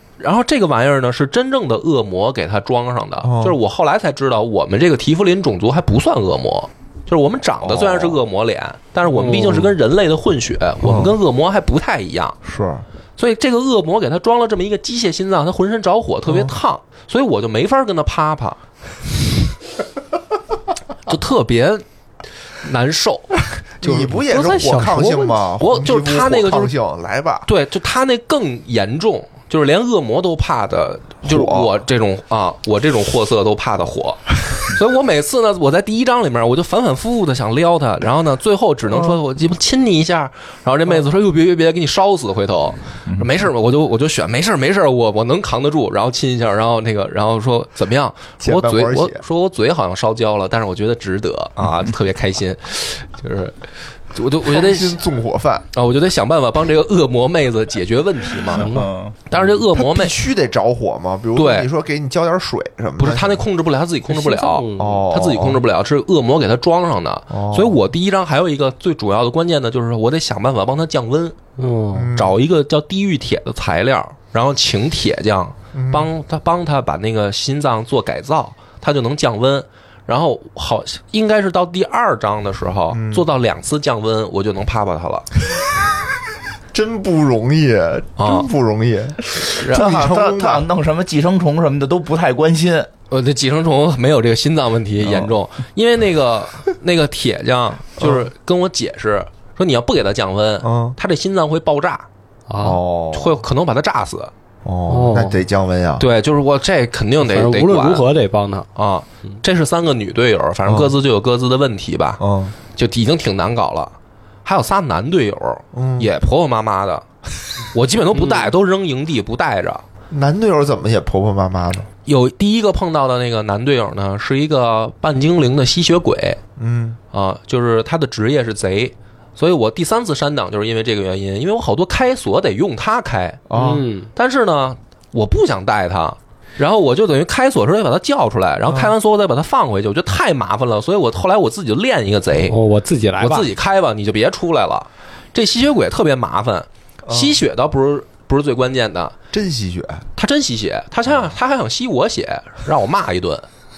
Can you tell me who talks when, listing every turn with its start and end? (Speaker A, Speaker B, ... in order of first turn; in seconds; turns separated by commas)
Speaker A: 0.2-12.4, Speaker B: 3.2-3.6, Speaker B: 7.6-8.2, Speaker C: 9.1-9.7, Speaker B: 10.8-11.2, Speaker B: 12.4-12.8, Speaker A: 13.2-18.6, Speaker B: 16.3-16.5, Speaker A: 21.1-21.8, Speaker A: 22.5-23.3, Speaker B: 23.8-27.5, Speaker C: 23.8-25.5, Speaker A: 25.6-26.7, Speaker A: 27.4-55.0, Speaker B: 31.2-31.8, Speaker B: 38.9-39.1, Speaker B: 48.4-49.2, Speaker B: 54.4-55.7, Speaker A: 55.7-58.7, Speaker C: 58.5-58.9, Speaker D: 58.6-59.1, Speaker A: 59.3-60.1, Speaker B: 59.4-63.4, Speaker A: 61.4-61.7, Speaker A: 63.0-71.4, Speaker C: 64.1-65.0, Speaker B: 64.7-65.6, Speaker B: 67.3-67.8, Speaker C: 71.6-72.1, Speaker B: 71.9-72.4, Speaker A: 72.1-85.3, Speaker B: 75.7-76.1, Speaker B: 82.9-83.2, Speaker B: 86.7-90.7, Speaker A: 88.2-88.5, Speaker A: 89.5-89.8, Speaker D: 89.6-92.9, Speaker A: 93.1-102.0, Speaker B: 98.0-98.3, Speaker B: 100.6-101.0, Speaker C: 102.5-102.8, Speaker B: 102.6-103.4, Speaker A: 103.1-104.3, Speaker B: 104.6-106.0, Speaker C: 104.9-105.4, Speaker A: 106.0-108.0, Speaker C: 107.2-108.7, Speaker A: 108.7-112.2, Speaker B: 110.7-111.0, Speaker B: 112.2-112.5, Speaker A: 112.7-117.0, Speaker B: 115.7-116.1, Speaker A: 117.7-119.8, Speaker C: 118.1-118.5, Speaker B: 120.1-121.9, Speaker A: 122.0-126.4, Speaker B: 126.6-127.0, Speaker A: 127.1-133.4, Speaker B: 133.5-133.9, Speaker C: 133.5-134.1, Speaker A: 134.1-142.6, Speaker B: 138.7-138.9, Speaker C: 142.5-143.5, Speaker A: 143.2-149.1, Speaker B: 147.1-147.4, Speaker B: 149.3-150.1, Speaker A: 150.2-153.5